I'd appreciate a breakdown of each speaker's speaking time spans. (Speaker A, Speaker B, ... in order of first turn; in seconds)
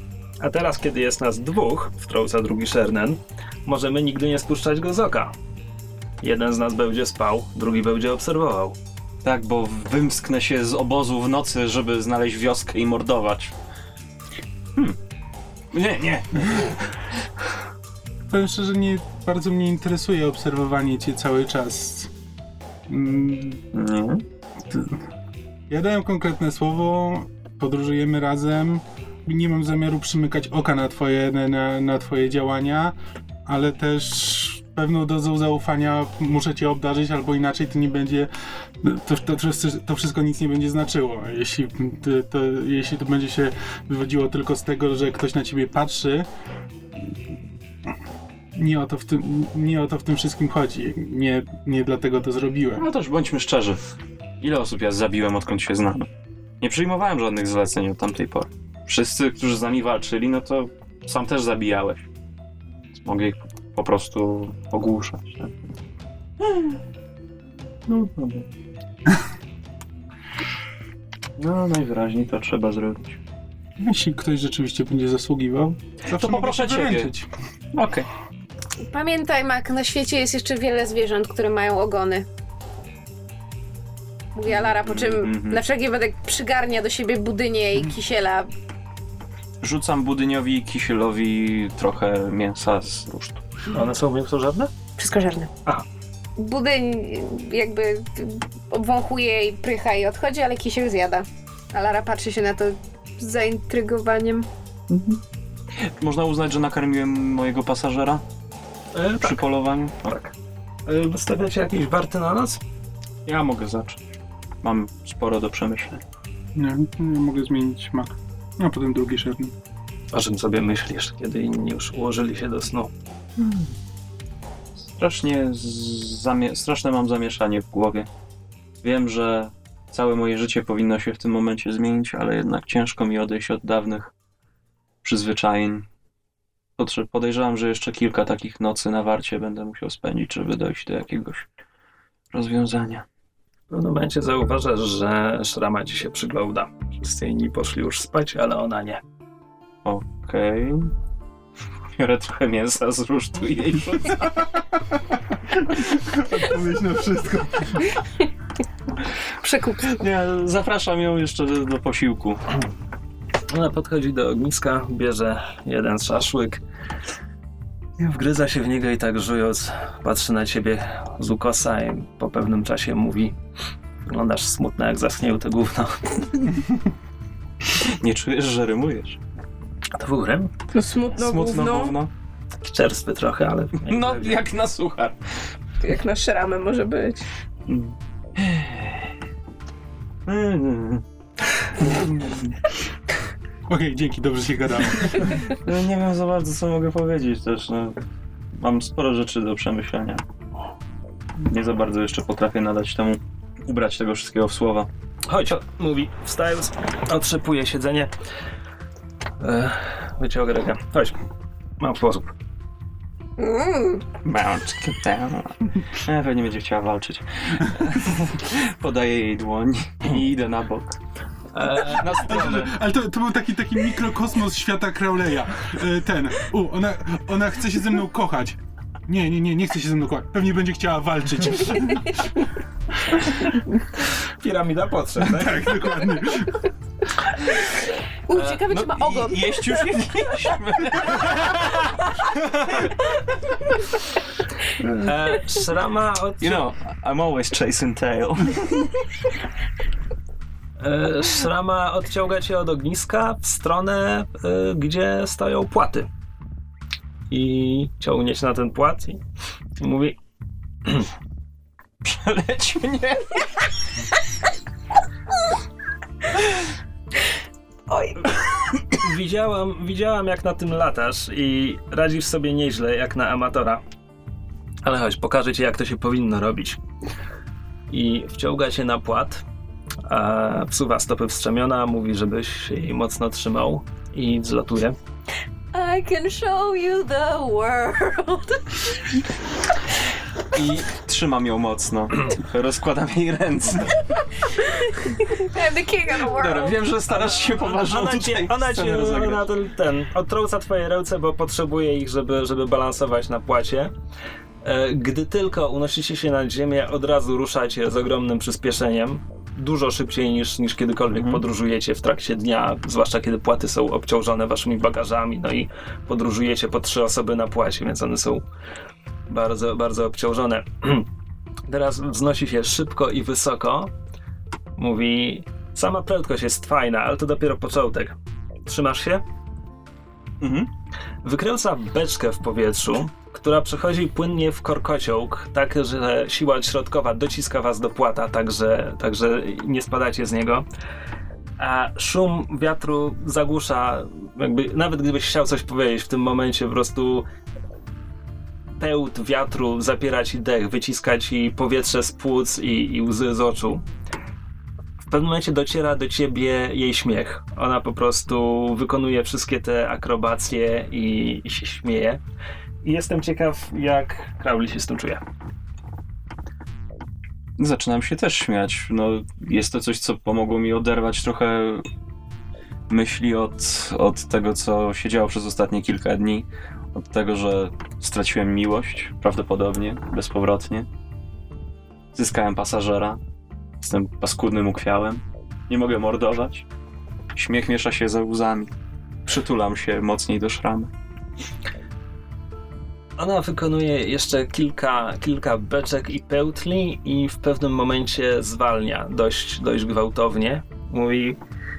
Speaker A: 0.4-5.3, 6.2-8.8, 93.7-94.7, 109.0-109.4, 110.9-112.6, 120.1-122.9, 143.7-149.0, 163.5-166.6, 168.0-173.4, 174.1-176.4, 179.9-180.5, 182.6-184.4, 205.3-208.1, 209.4-211.2, 211.8-212.3, 221.5-222.2, 234.2-235.9, 238.3-239.0, 244.8-246.6, 250.8-256.1, 257.3-259.2, 259.8-260.2, 260.8-261.1, 268.9-273.8, 274.8-276.8, 277.9-279.4, 280.1-285.0, 297.2-303.9, 304.6-318.4, 319.3-321.1, 321.7-323.9, 324.8-329.2, 331.2-340.6, 341.6-347.2, 348.8-353.9, 355.0-362.2, 362.8-365.2, 393.2-401.4
Speaker B: 9.2-13.5, 15.7-16.9, 23.7-24.2, 52.8-53.8, 54.4-56.1, 56.6-62.1, 63.0-65.7, 66.4-66.8, 67.9-68.5, 71.4-73.2, 76.1-77.1, 77.7-78.1, 84.5-85.6, 89.6-93.4, 104.9-105.2, 105.8-108.2, 109.2-110.3, 113.3-114.0, 114.6-116.0, 123.4-123.8, 124.9-128.1, 128.8-134.1, 135.0-135.9, 136.8-141.5, 142.3-143.1, 149.8-150.9, 152.0-154.6, 159.9-162.4, 177.7-179.2, 181.2-182.1, 183.8-185.2, 187.7-189.1, 190.3-191.0, 195.5-198.0, 198.5-200.2, 201.4-204.9, 214.2-221.0, 221.6-222.8, 238.6-242.0, 242.8-243.2, 246.4-249.0, 262.0-263.5, 290.5-294.1, 296.2-299.5, 311.1-311.4, 330.4-330.7, 367.6-371.9, 372.9-380.9, 382.1-383.2, 383.8-386.7, 387.4-388.7, 389.3-390.9
Speaker C: 18.3-22.1, 22.9-23.6, 24.7-25.1, 25.7-46.3, 48.5-52.9, 73.8-77.3, 116.5-119.5, 155.5-158.0, 191.9-192.6, 193.7-195.4, 221.9-232.4, 235.2-236.6
Speaker D: 78.8-82.3, 84.3-88.5, 95.0-95.5, 96.4-104.5, 159.4-160.0, 238.4-239.3, 285.7-289.2, 294.8-296.8
Speaker E: 180.7-181.9, 185.8-187.3, 238.3-240.0